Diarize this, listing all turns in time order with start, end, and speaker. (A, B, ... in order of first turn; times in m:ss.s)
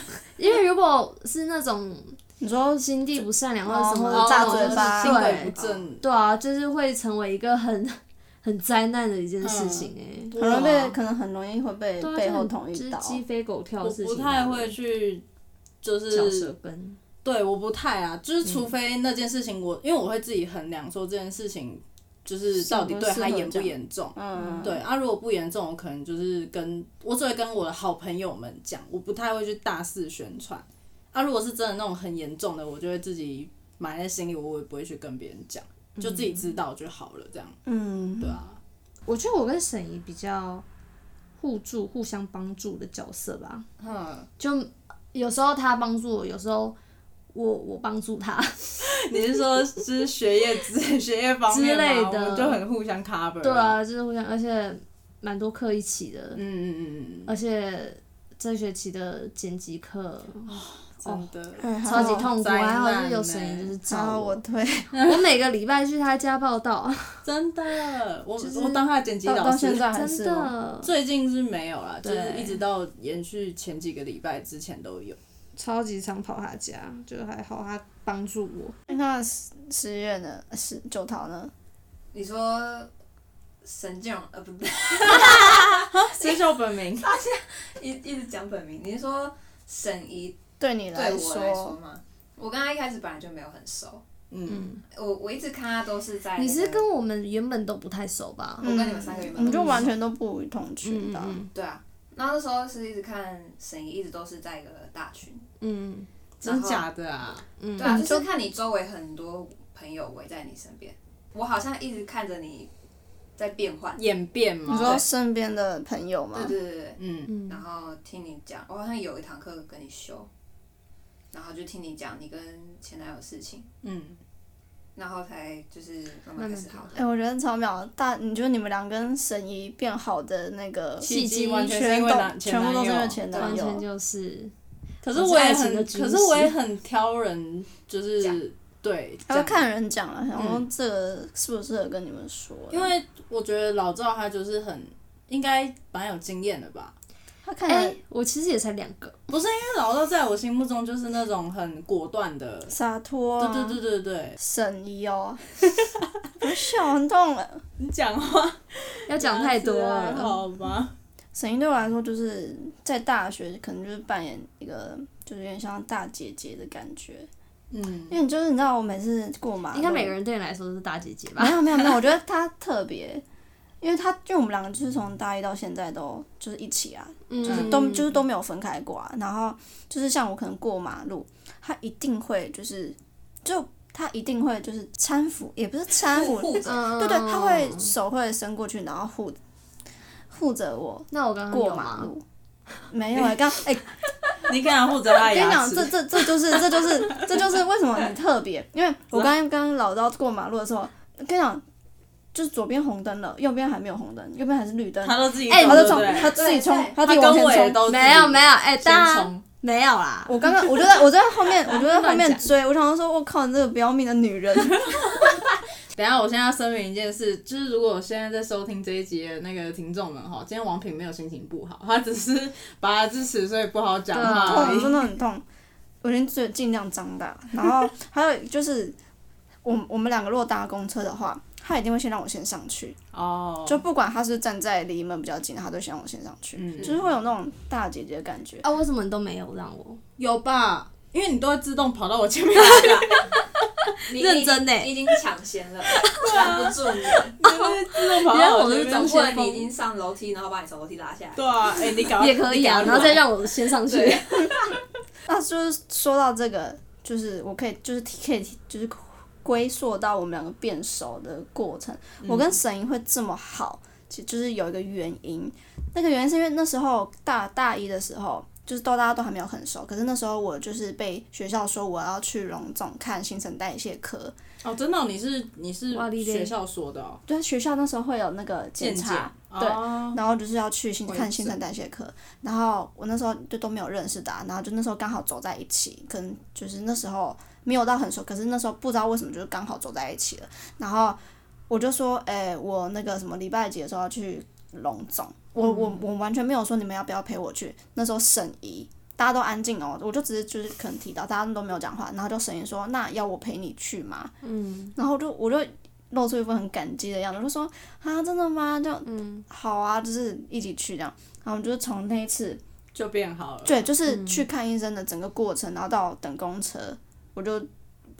0:00.4-0:02.2 A
0:02.4-0:05.5 B
0:02.8-0:10.7 A
0:04.1-0:06.0 C
0:05.5-0:05.9 D
0:09.4-0:10.9 C
0:10.4-0:13.2 B
0:12.0-0:14.8 A
0:13.8-0:15.2 C
0:15.8-0:16.5 C
0:16.1-0:17.0 A
0:17.2-0:37.6 C
0:22.6-0:24.8 B
0:22.8-0:23.6 A
0:24.4-0:24.7 A
0:36.0-0:36.5 A
0:37.6-0:38.4 B
0:38.2-0:38.6 C
0:39.1-0:40.6 A
0:41.4-0:43.6 A
0:43.8-0:44.3 C
0:44.4-0:46.8 A
0:47.3-0:49.1 A
0:48.8-0:53.8 C
0:51.5-0:52.6 A
0:53.4-0:56.4 A
0:56.3-0:57.3 C
0:57.3-1:01.3 A
1:00.5-1:03.7 C
1:01.6-1:02.3 B
1:01.8-1:04.4 A
1:03.9-1:04.9 B
1:05.0-1:07.2 A
1:07.2-1:09.9 C
1:08.4-1:08.9 A
1:09.2-1:10.5 B
1:09.9-1:10.9 A
1:10.8-1:15.2 C
1:12.0-1:12.6 A
1:15.6-1:18.8 A
1:18.9-1:21.5 B
1:22.1-1:22.9 D
1:23.6-1:30.4 D
1:25.0-1:27.1 C
1:30.6-1:31.7 B
1:30.9-1:34.0 D
1:34.3-1:34.7 C
1:34.5-1:34.8 A
1:34.9-1:36.8 D
1:36.4-1:38.7 A
1:38.6-1:39.9 D
1:38.6-1:41.4 B
1:39.5-1:39.9 A
1:40.8-1:41.5 A
1:41.5-1:45.4 D
1:45.6-1:46.1 A
1:46.4-1:47.4 C
1:46.4-1:46.8 D
1:47.6-1:48.0 A
1:47.7-1:52.7 D
1:47.8-1:48.3 B
1:53.4-1:54.0 D
1:54.0-1:55.0 C
1:54.7-1:56.6 B
1:54.7-1:55.0 D
1:56.3-2:00.3 D
1:57.0-1:57.3 C
1:57.3-1:57.6 A
2:01.3-2:03.7 D
2:03.8-2:04.2 C
2:05.0-2:07.1 D
2:06.4-2:06.9 A
2:06.9-2:11.1 B
2:11.0-2:11.7 A
2:11.0-2:13.6 C
2:11.6-2:13.8 B
2:13.4-2:14.5 A
2:15.0-2:19.6 C
2:15.1-2:16.5 A
2:19.3-2:22.9 B
2:20.3-2:20.6 C
2:22.7-2:26.9 C
2:27.4-2:28.0 B
2:27.6-2:29.2 A
2:29.3-2:32.7 C
2:32.7-2:33.8 B
2:33.4-2:34.4 C
2:34.4-2:35.5 B
2:36.4-2:37.6 B
2:37.8-2:40.9 C
2:39.1-2:40.4 A
2:41.3-2:47.3 B
2:47.7-2:48.2 C
2:48.1-2:50.1 B
2:49.7-2:51.7 A
2:51.4-2:53.2 B
2:53.8-3:09.4 B
2:57.3-2:58.1 A
2:57.4-2:57.7 C
3:06.1-3:06.8 D
3:06.6-3:07.9 A
3:10.3-3:12.2 B
3:11.1-3:12.1 A
3:12.9-3:13.8 B
3:14.4-3:15.9 C
3:15.2-3:21.6 B
3:22.3-3:27.8 B
3:25.0-3:26.4 C
3:25.5-3:26.2 A
3:26.1-3:27.3 D
3:27.0-3:29.4 C
3:27.8-3:30.8 A
3:30.2-3:35.1 B
3:31.6-3:32.4 A
3:35.9-3:45.0 C
3:44.1-3:44.9 A
3:44.3-3:45.4 B
3:46.0-3:48.9 B
3:49.6-3:53.0 B
3:53.1-3:53.8 C
3:53.6-3:58.6 B
3:56.5-3:57.0 C
3:58.6-4:00.0 A
4:00.2-4:03.3 C
4:02.6-4:03.1 D
4:03.9-4:05.0 A
4:04.0-4:07.8 D
4:06.0-4:06.5 A
4:06.2-4:09.1 C
4:08.1-4:09.7 A
4:08.6-4:12.0 D
4:11.4-4:13.2 C
4:12.2-4:14.5 A
4:12.7-4:14.8 D
4:15.2-4:34.3 B
4:22.2-4:22.5 C
4:34.6-4:37.2 C
4:35.9-4:36.5 A
4:37.3-4:51.2 B
4:38.8-4:40.2 C
4:41.1-4:41.4 C
4:51.7-5:04.3 B
5:04.4-5:04.9 A
5:05.0-5:12.6 B
5:09.0-5:09.4 A
5:12.9-5:13.8 C
5:13.6-5:17.7 B
5:14.1-5:14.4 A